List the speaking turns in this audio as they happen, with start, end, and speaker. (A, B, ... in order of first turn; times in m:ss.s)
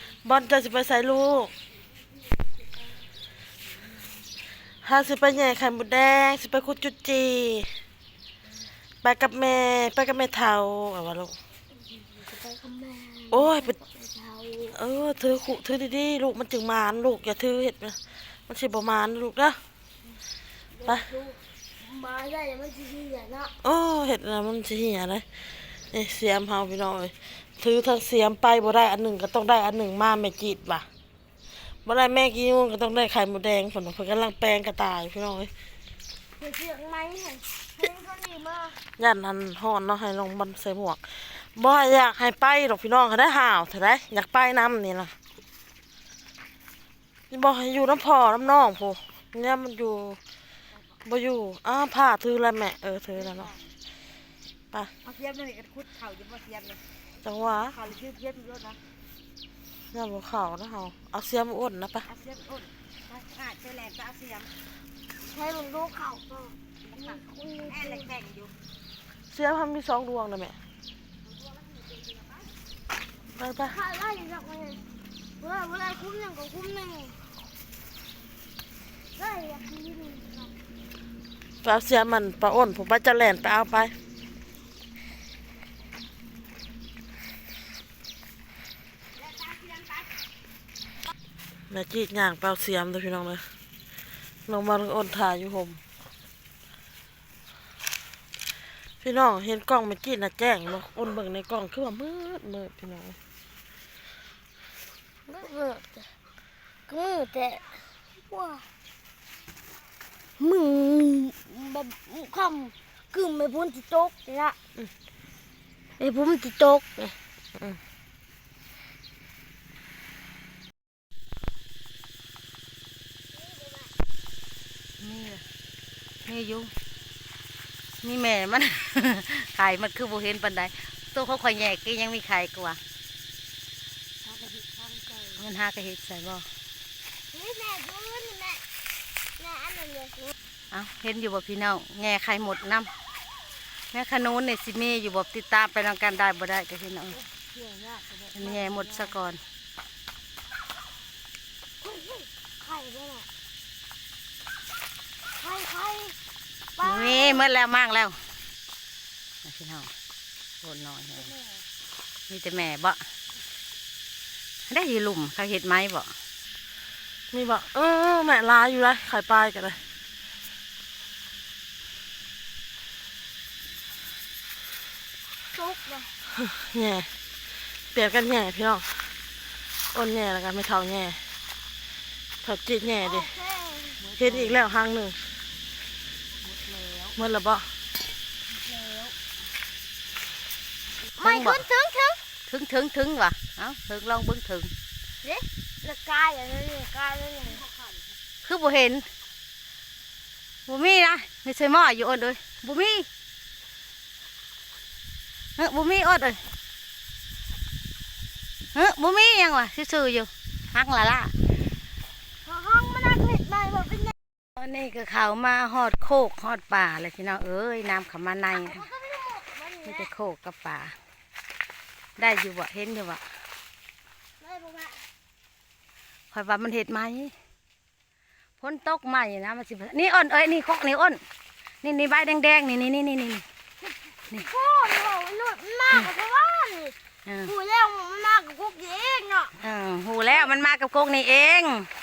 0:00.2-0:01.5 A
0:04.8-0:07.7 A
0:09.0-0:11.4 A
0:12.1-0:14.8 B
0:13.3-0:13.8 A
0:14.7-0:19.6 A
0:20.8-0:23.5 B
0:23.6-0:30.9 A
0:31.8-0:35.5 A
0:36.4-0:38.8 B
0:39.0-0:45.1 A
0:47.3-0:50.2 A
0:51.0-0:53.5 A
0:53.1-0:53.7 C
0:55.0-0:56.8 C
0:57.2-0:57.8 A
0:57.7-0:58.8 C
0:59.9-1:02.1 A
1:02.0-1:04.5 C
1:05.3-1:08.1 B
1:06.8-1:08.5 C
1:09.3-1:10.6 A
1:13.4-1:13.8 A
1:13.6-1:14.8 B
1:15.4-1:17.3 B
1:19.2-1:20.5 B
1:21.6-1:23.9 A
1:31.7-1:33.4 A
1:34.5-1:35.8 A
1:39.0-1:43.2 A
1:45.3-1:46.1 B
1:46.9-1:48.7 B
1:50.4-1:54.6 B
1:56.0-1:57.2 B
2:03.4-2:03.9 B
2:05.0-2:05.4 C
2:06.2-2:06.7 C
2:08.0-2:12.8 C
2:15.3-2:16.5 C
2:17.3-2:18.6 B
2:19.4-2:20.4 B
2:20.7-2:22.9 C
2:23.9-2:27.2 C
2:27.1-2:29.1 B
2:28.3-2:29.4 C
2:31.8-2:33.3 B
2:35.4-2:36.2 B
2:36.8-2:37.5 B
2:36.8-2:38.2 C
2:39.4-2:39.9 C
2:40.6-2:41.4 C
2:42.3-2:43.0 C
2:44.7-2:46.1 C
2:47.3-2:49.8 A
2:55.5-2:56.1 B
2:56.4-2:57.1 A
2:57.9-2:59.1 A
2:59.9-3:01.2 A
3:02.4-3:03.4 A
3:03.0-3:04.0 B
3:04.0-3:04.6 C
3:04.2-3:05.2 A
3:06.4-3:07.1 C
3:07.2-3:07.7 A
3:08.7-3:09.1 B
3:11.2-3:12.2 B
3:11.2-3:11.6 C
3:12.5-3:14.7 C
3:15.2-3:17.7 B
3:18.4-3:19.1 C
3:20.7-3:23.1 C
3:25.6-3:26.4 C
3:28.7-3:31.3 C
3:32.4-3:34.2 B
3:34.6-3:38.9 C
3:38.5-3:40.1 B
3:39.8-3:41.0 C
3:42.2-3:43.2 C
3:44.4-3:45.1 B
3:46.3-3:47.3 C
3:48.6-3:51.2 C
3:51.8-3:53.4 C
3:53.8-3:59.6 B
3:57.3-3:57.5 C
3:59.6-4:01.9 C